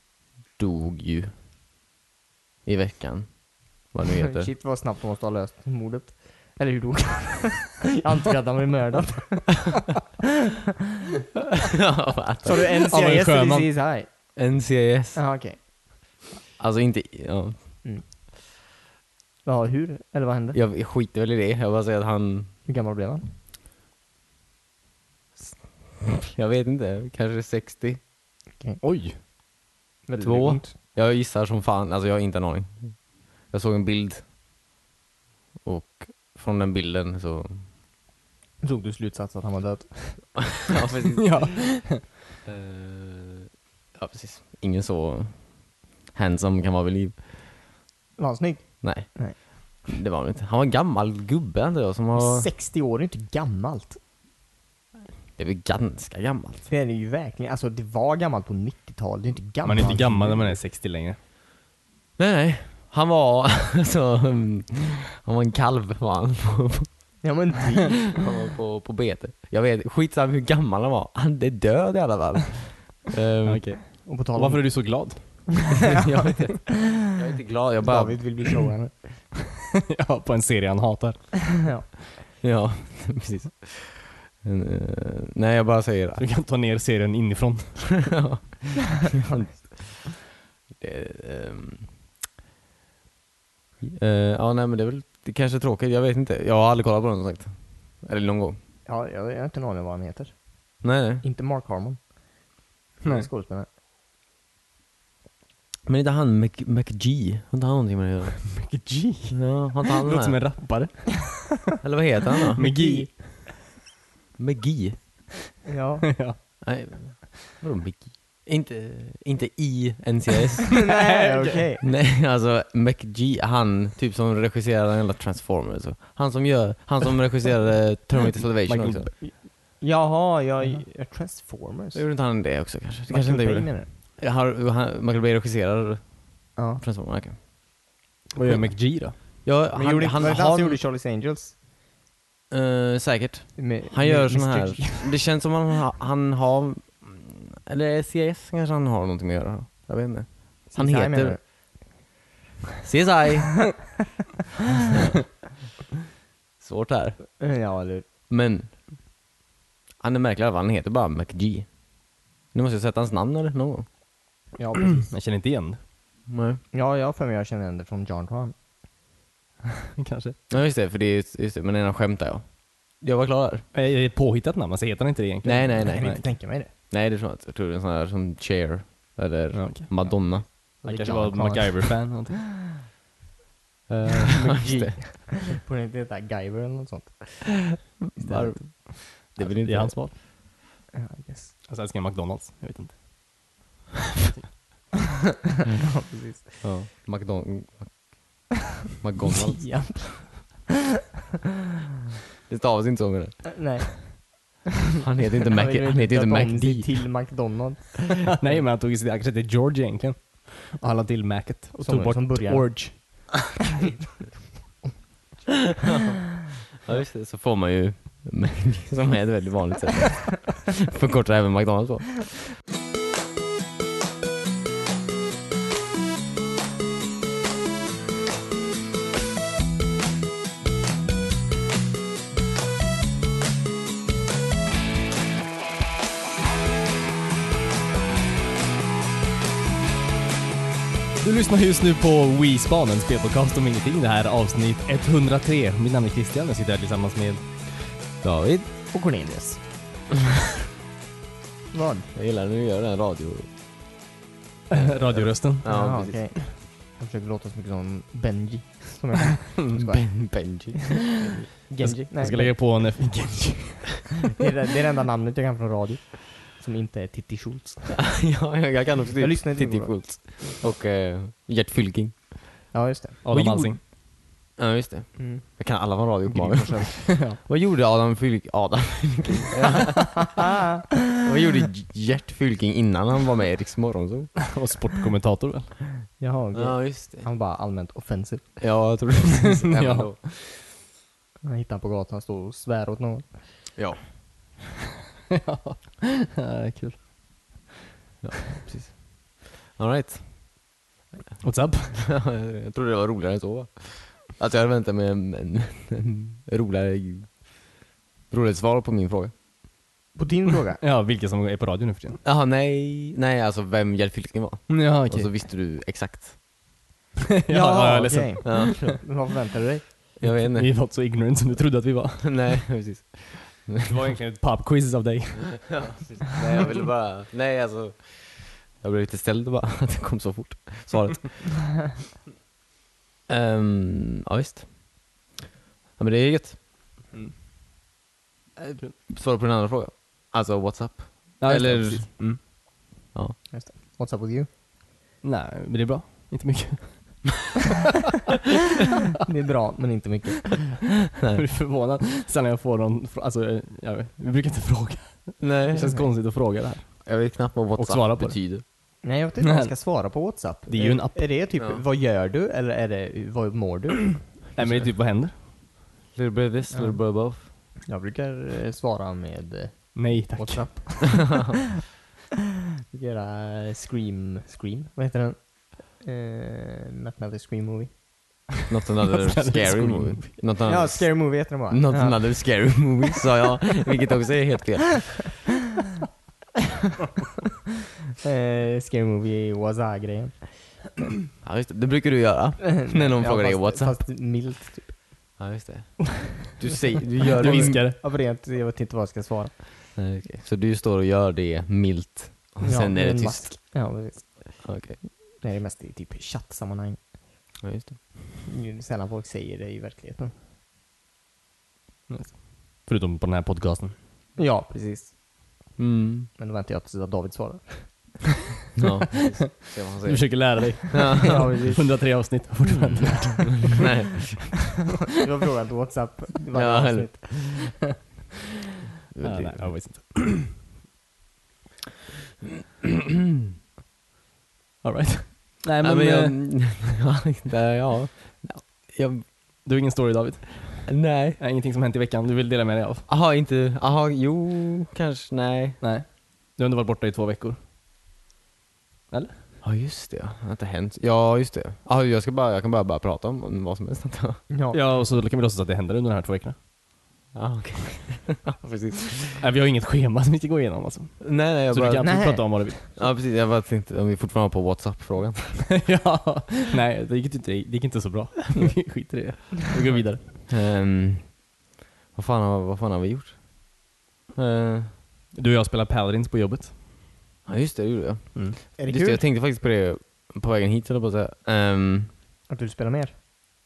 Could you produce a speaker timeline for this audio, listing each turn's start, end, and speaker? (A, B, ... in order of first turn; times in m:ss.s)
0:00.6-0:01.3 A
0:02.6-0:04.5 A
0:04.0-0:09.6 B
0:11.7-0:12.6 A
0:12.4-0:14.1 B
0:12.5-0:13.7 C
0:14.4-0:15.2 A
0:15.2-0:15.7 B
0:16.6-0:17.8 A
0:19.4-0:20.6 B
0:20.5-0:22.6 A
0:22.7-0:23.3 B
0:25.4-0:28.0 A
0:28.8-0:29.2 C
0:30.1-0:30.8 B
0:30.2-0:34.3 A
0:35.6-0:37.7 A
0:38.6-0:40.6 B
0:40.6-0:41.8 A
0:41.2-0:42.1 C
0:42.4-0:47.3 A
0:48.2-0:49.4 B
0:48.8-0:52.5 A
0:52.2-0:54.0 B
0:55.4-0:56.7 A
0:56.7-1:00.6 B
0:59.6-1:01.2 C
1:02.2-1:07.3 A
1:07.2-1:08.2 B
1:08.2-1:13.8 A
1:13.4-1:15.9 C
1:14.0-1:15.9 B
1:15.9-1:18.3 A
1:17.8-1:19.3 B
1:19.9-1:21.7 C
1:21.6-1:22.1 B
1:22.4-1:26.2 A
1:26.2-1:28.2 C
1:28.1-1:32.0 A
1:33.8-1:38.6 A
1:38.9-1:42.1 B
1:40.8-1:41.2 A
1:43.0-1:43.7 B
1:43.0-1:43.3 C
1:45.9-1:48.8 A
1:48.5-1:51.6 C
1:49.3-1:50.7 A
1:51.8-1:52.8 A
1:52.6-1:53.6 C
1:52.6-1:53.1 B
1:54.4-1:55.0 A
1:55.6-1:56.2 B
1:56.1-1:56.6 C
1:56.6-2:00.8 A
2:00.8-2:01.8 B
2:00.9-2:01.7 C
2:01.8-2:09.1 A
2:08.7-2:12.4 B
2:11.9-2:17.4 A
2:13.1-2:13.9 B
2:16.6-2:16.8 B
2:18.3-2:19.4 C
2:18.5-2:20.8 A
2:19.7-2:21.6 B
2:22.5-2:31.4 A
2:23.6-2:25.2 B
2:30.7-2:31.4 B
2:32.8-2:33.8 A
2:36.6-2:37.4 A
2:37.4-2:38.1 B
2:38.3-2:38.9 A
2:40.0-2:43.9 A
2:44.5-2:45.1 B
2:45.1-2:45.8 C
2:46.3-2:46.6 A
2:46.7-2:48.5 B
2:50.0-2:50.4 C
2:50.5-2:53.7 A
2:53.7-2:56.2 C
2:55.4-3:00.5 A
2:55.9-2:56.7 B
2:59.5-3:02.4 C
3:00.0-3:02.2 B
3:03.9-3:05.5 A
3:04.4-3:08.9 B
3:08.0-3:10.1 A
3:09.3-3:10.2 C
3:10.9-3:11.6 B
3:11.7-3:13.0 C
3:15.8-3:16.5 B
3:16.4-3:18.1 A
3:19.0-3:20.0 A
3:19.2-3:20.7 B
3:22.5-3:23.6 A
3:23.5-3:24.6 B
3:25.0-3:27.3 A
3:25.5-3:28.4 B
3:28.3-3:33.2 C
3:31.8-3:34.2 B
3:36.8-3:42.2 A
4:01.2-4:07.4 C
4:08.2-4:08.7 A
4:08.9-4:09.6 B
4:11.7-4:12.1 B
4:12.1-4:13.5 A
4:14.7-4:15.8 C
4:14.7-4:16.2 A
4:15.7-4:22.6 B
4:19.7-4:21.3 A
4:21.8-4:24.1 C
4:24.4-4:28.1 B
4:27.9-4:32.4 A
4:29.2-4:30.4 B
4:32.7-4:33.2 B
4:33.2-4:33.8 C
4:33.3-4:34.0 A
4:34.6-4:40.4 A
4:35.2-4:37.4 B
4:40.5-4:40.8 B
4:41.1-4:44.5 A
4:44.5-4:45.8 C
4:46.2-4:48.5 B
4:46.5-4:47.3 A
4:48.6-4:50.2 A
4:49.4-4:50.6 C
4:51.4-4:53.5 B
4:53.8-4:54.1 A
4:55.3-4:57.7 C
4:58.2-5:00.6 A
5:01.4-5:02.0 C
5:01.9-5:07.7 A
5:08.3-5:09.4 A
5:10.1-5:10.8 B
5:10.8-5:12.2 C
5:12.2-5:16.4 A
5:14.7-5:15.3 C
5:17.3-5:19.0 C
5:17.5-5:20.0 B
5:18.4-5:19.0 A
5:20.2-5:20.7 A
5:20.2-5:22.7 C
5:22.2-5:23.8 A
5:23.8-5:25.9 C
5:25.7-5:31.6 A
5:33.3-5:35.2 A
5:36.0-5:36.6 A
5:38.6-5:42.5 A
5:41.4-5:42.4 C
5:43.1-5:43.4 A
5:43.5-5:44.5 B
5:45.2-5:47.5 C
5:49.2-5:50.9 B
5:51.2-5:51.4 A
5:51.4-6:00.0 C
5:55.4-5:56.3 A
5:55.7-5:56.1 B
5:57.0-5:58.6 A
5:59.0-6:04.6 B
6:00.7-6:01.4 C
6:01.6-6:01.8 A
6:04.5-6:05.3 C
6:04.6-6:04.9 A
6:06.1-6:07.5 A
6:06.7-6:11.6 B
6:09.9-6:11.2 C
6:12.9-6:18.5 B
6:18.7-6:25.2 A
6:19.1-6:20.4 C
6:20.6-6:22.2 B
6:28.2-6:30.5 B
6:31.4-6:34.0 A
6:32.6-6:35.4 B
6:35.4-6:37.8 A
6:37.2-6:39.6 B
6:37.2-6:38.0 C
6:39.9-6:43.6 A
6:42.6-6:47.1 B
6:44.6-6:45.0 A
6:47.6-6:48.0 A
6:48.4-6:50.3 B
6:52.1-6:54.0 C
6:54.4-6:55.1 B
6:55.8-6:56.3 A
6:56.4-6:58.3 B
6:58.8-7:01.7 A
6:59.5-7:03.9 C
7:01.0-7:02.1 B
7:03.0-7:04.9 A
7:05.2-7:07.6 B
7:06.5-7:07.7 A
7:09.1-7:09.7 A
7:09.2-7:10.6 C
7:14.8-7:16.6 C
7:15.8-7:19.3 A
7:19.6-7:23.1 C
7:20.9-7:21.4 A
7:23.1-7:25.8 A
7:25.8-7:27.6 C
7:29.1-7:29.4 C
7:29.6-7:34.4 A
7:34.5-7:34.8 B
7:34.7-7:36.6 C
7:37.3-7:39.4 A
7:39.3-7:42.9 C
7:41.2-7:45.8 A
7:42.0-7:42.7 B
7:45.7-7:50.2 C
7:50.5-7:51.5 A
7:52.1-7:53.8 A
7:54.4-7:55.0 A
7:55.3-7:56.7 C
7:57.5-8:02.1 A
7:58.8-7:59.2 B
8:02.5-8:03.2 B